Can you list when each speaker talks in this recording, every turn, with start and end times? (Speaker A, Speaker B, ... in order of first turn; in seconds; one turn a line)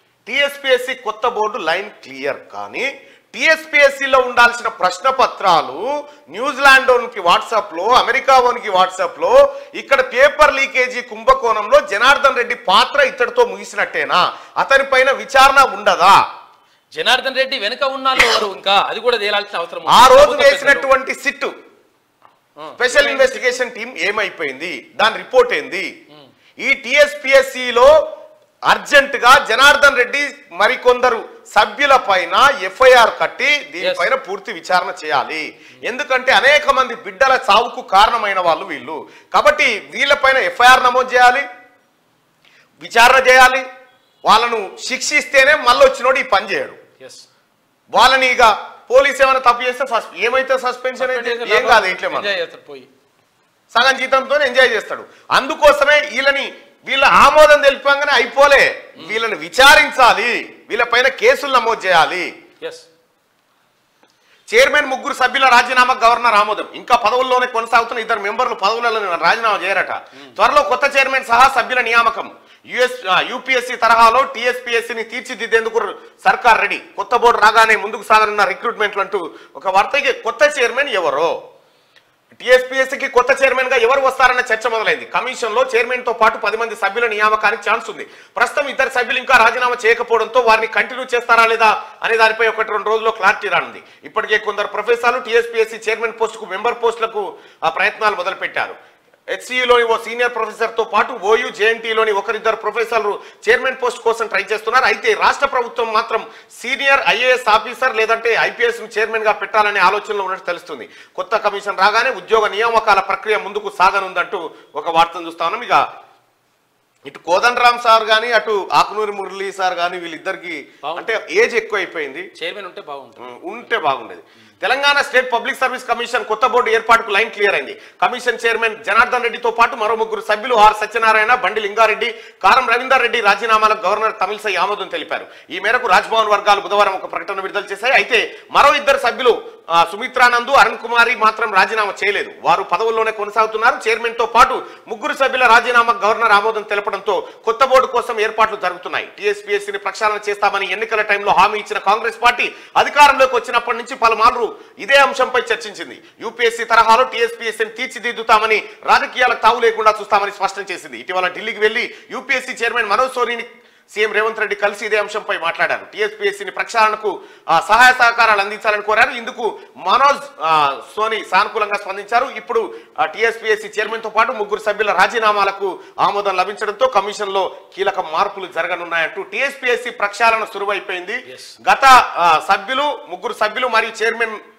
Speaker A: 0.2-16.2
Speaker B: 16.9-20.9
Speaker A: 19.9-21.5
Speaker B: 22.6-23.6
Speaker A: 22.8-25.9
Speaker A: 26.6-27.9
Speaker A: 28.7-41.4
Speaker B: 33.8-34.1
Speaker A: 42.8-43.6
Speaker A: 44.3-46.8
Speaker B: 47.0-47.2
Speaker A: 47.9-52.3
Speaker B: 51.0-52.9
Speaker A: 53.7-62.3
Speaker B: 62.6-62.9
Speaker A: 64.5-81.3
Speaker A: 82.4-98.8
Speaker A: 99.3-115.8
Speaker A: 117.1-122.3
Speaker B: 120.8-121.1
Speaker B: 122.4-123.3
Speaker A: 123.2-184.4
Speaker B: 181.3-181.6